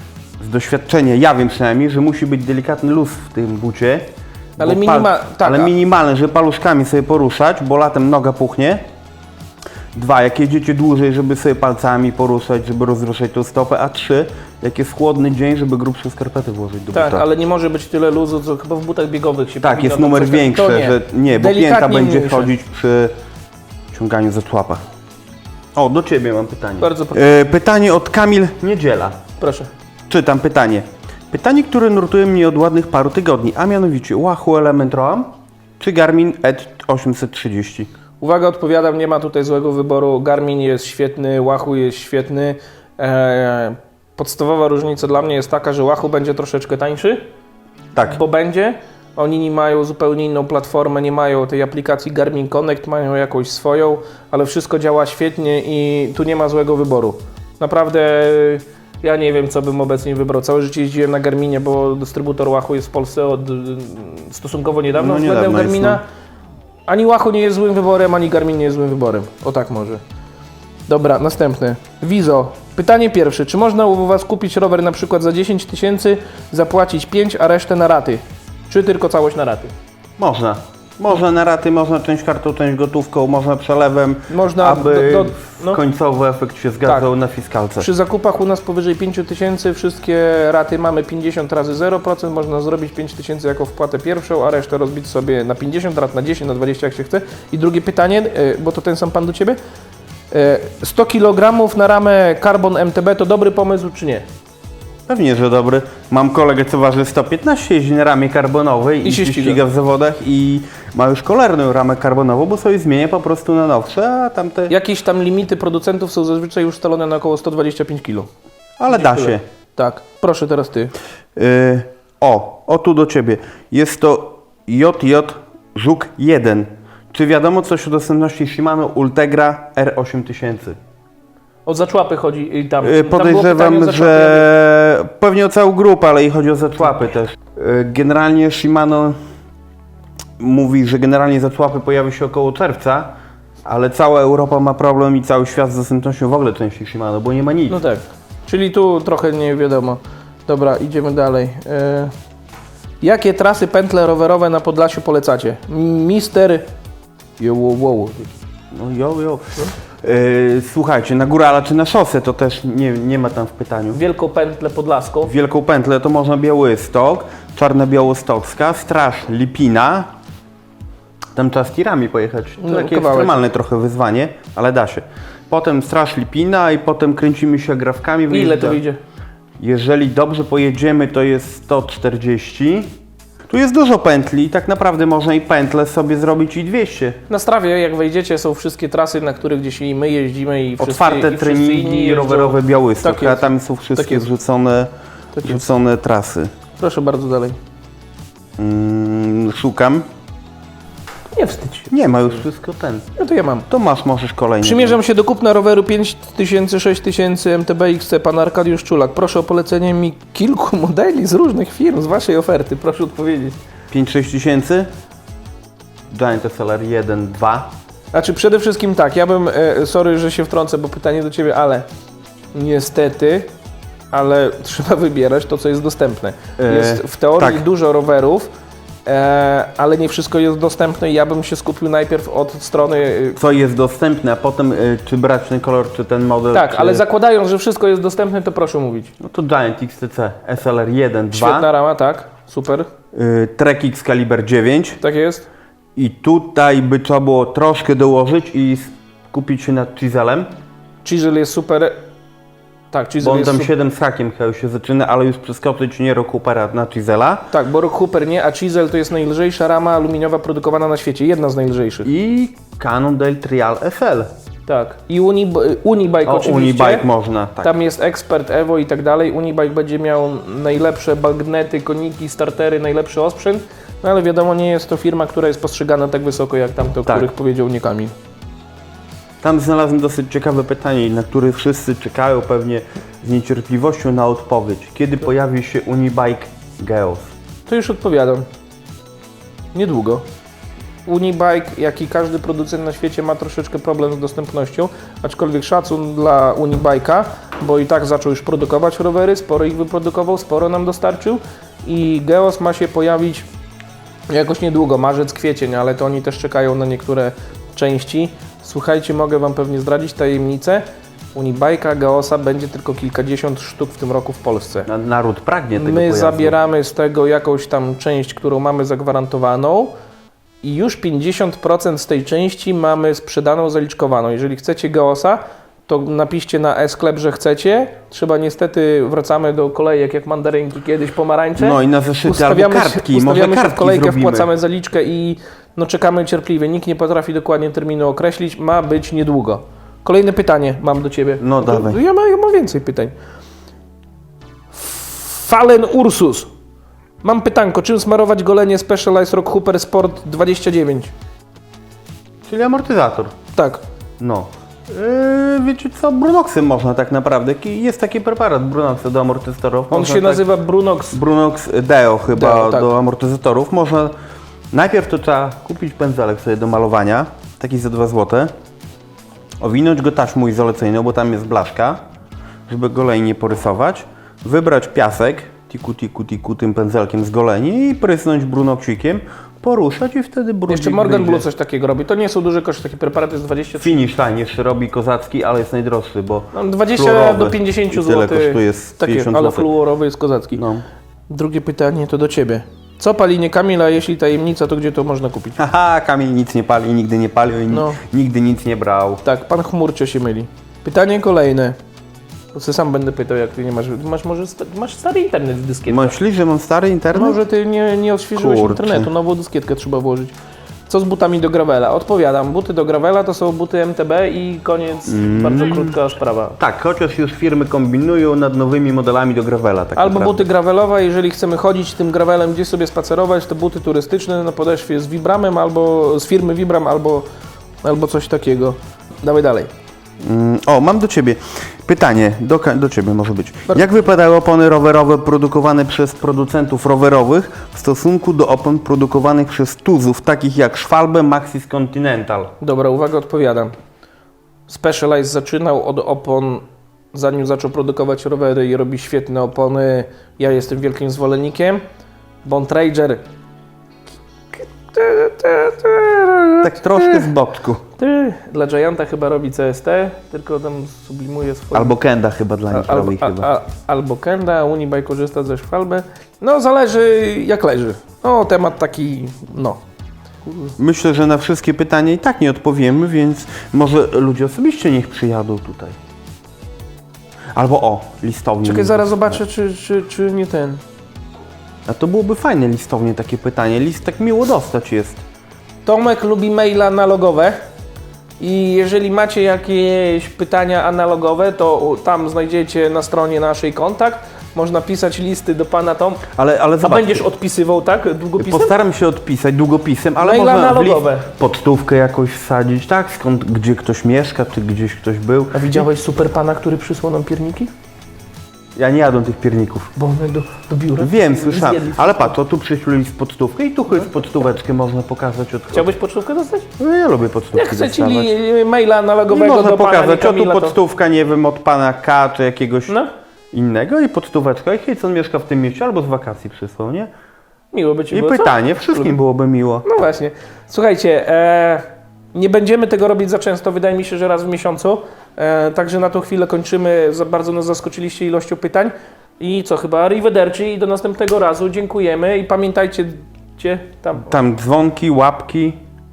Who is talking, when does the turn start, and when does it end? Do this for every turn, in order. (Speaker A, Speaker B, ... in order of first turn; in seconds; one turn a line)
Speaker A: 0.4-4.1
Speaker B: 4.6-5.7
Speaker A: 4.6-8.8
Speaker A: 9.9-17.2
Speaker B: 16.9-22.5
Speaker A: 19.6-23.1
Speaker A: 23.9-24.8
Speaker A: 25.7-29.2
Speaker B: 26.8-27.2
Speaker B: 29.4-29.7
Speaker A: 30.1-37.9
Speaker B: 38.2-47.2
Speaker B: 48.0-66.0
Speaker A: 65.0-66.0
Speaker B: 66.9-70.0
Speaker B: 70.9-79.7
Speaker A: 80.2-87.9
Speaker B: 84.3-85.8
Speaker B: 86.8-87.1
Speaker B: 87.8-99.6
Speaker B: 100.3-104.2
Speaker A: 105.1-114.7
Speaker B: 109.0-109.6
Speaker B: 114.7-118.3
Speaker A: 118.8-119.4
Speaker B: 118.9-120.9
Speaker A: 121.3-130.8
Speaker B: 131.7-134.5
Speaker A: 132.8-139.2
Speaker A: 140.4-143.1
Speaker A: 143.6-147.8
Speaker B: 147.7-152.1
Speaker B: 153.0-156.6
Speaker B: 157.4-158.3
Speaker A: 158.7-164.0
Speaker B: 163.9-165.3
Speaker A: 165.2-170.1
Speaker A: 171.3-178.8
Speaker B: 172.6-173.4
Speaker B: 178.3-179.0
Speaker A: 179.6-182.9
Speaker A: 183.5-187.2
Speaker B: 187.3-194.2
Speaker A: 190.8-196.5
Speaker B: 195.3-195.6
Speaker B: 196.8-197.6
Speaker A: 198.6-200.0
Speaker B: 201.3-202.4
Speaker A: 201.9-203.0
Speaker B: 203.2-203.7
Speaker A: 203.7-205.0
Speaker B: 204.6-213.6
Speaker A: 213.9-214.9
Speaker A: 216.1-217.7
Speaker B: 218.1-221.8
Speaker B: 222.5-223.5
Speaker B: 224.1-228.5
Speaker A: 226.6-227.6
Speaker B: 229.1-233.4
Speaker A: 233.3-237.0
Speaker B: 236.5-239.1
Speaker A: 239.2-241.7
Speaker B: 241.3-242.9
Speaker A: 243.1-245.0
Speaker B: 245.0-245.5
Speaker A: 245.9-250.5
Speaker B: 251.0-252.0
Speaker B: 252.9-253.7
Speaker A: 253.2-257.5
Speaker B: 257.5-262.1
Speaker A: 262.0-264.3
Speaker B: 264.7-267.1
Speaker A: 266.2-267.7
Speaker B: 267.6-278.1
Speaker A: 279.4-287.3
Speaker B: 287.7-288.4
Speaker B: 289.7-290.2
Speaker B: 291.1-303.4
Speaker B: 304.3-310.8
Speaker B: 311.3-314.9
Speaker A: 314.9-316.6
Speaker B: 315.8-319.9
Speaker B: 320.6-343.1
Speaker A: 331.6-334.5
Speaker A: 341.4-342.0
Speaker B: 344.7-346.5
Speaker B: 347.2-351.1
Speaker A: 352.5-353.3
Speaker B: 353.5-353.8
Speaker A: 354.2-360.4
Speaker B: 359.9-361.2
Speaker A: 361.1-364.1
Speaker B: 362.3-362.9
Speaker A: 364.7-368.5
Speaker A: 369.6-372.0
Speaker A: 372.7-381.4
Speaker B: 380.7-384.0
Speaker A: 383.8-389.7
Speaker B: 386.5-390.6
Speaker A: 390.5-390.8
Speaker B: 391.3-395.6
Speaker A: 395.6-399.2
Speaker B: 397.7-398.0
Speaker B: 399.2-401.8
Speaker B: 402.5-406.1
Speaker A: 405.9-407.4
Speaker B: 407.1-410.3
Speaker A: 408.3-409.1
Speaker B: 410.9-416.6
Speaker A: 415.1-415.9
Speaker A: 416.6-420.4
Speaker B: 419.9-427.2
Speaker B: 427.8-429.7
Speaker A: 430.2-442.5
Speaker B: 442.6-443.7
Speaker B: 444.7-451.8
Speaker B: 452.4-453.2
Speaker B: 454.5-457.2
Speaker A: 456.6-457.8
Speaker B: 458.0-461.9
Speaker A: 461.7-463.5
Speaker B: 462.7-469.8
Speaker B: 470.4-470.7
Speaker A: 470.8-475.9
Speaker A: 477.5-479.4
Speaker B: 478.6-480.8
Speaker A: 481.9-485.2
Speaker B: 485.9-487.6
Speaker B: 488.4-496.3
Speaker A: 496.3-497.2
Speaker B: 496.8-498.7
Speaker A: 498.4-505.9
Speaker B: 500.2-501.3
Speaker B: 505.5-507.7
Speaker A: 508.8-509.9
Speaker B: 509.9-512.4
Speaker A: 511.0-515.9
Speaker B: 515.7-516.7
Speaker A: 516.8-518.3
Speaker B: 517.5-520.8
Speaker A: 519.3-523.0
Speaker A: 523.5-527.1
Speaker B: 527.7-529.2
Speaker A: 528.1-529.8
Speaker B: 529.8-544.3
Speaker A: 544.1-545.8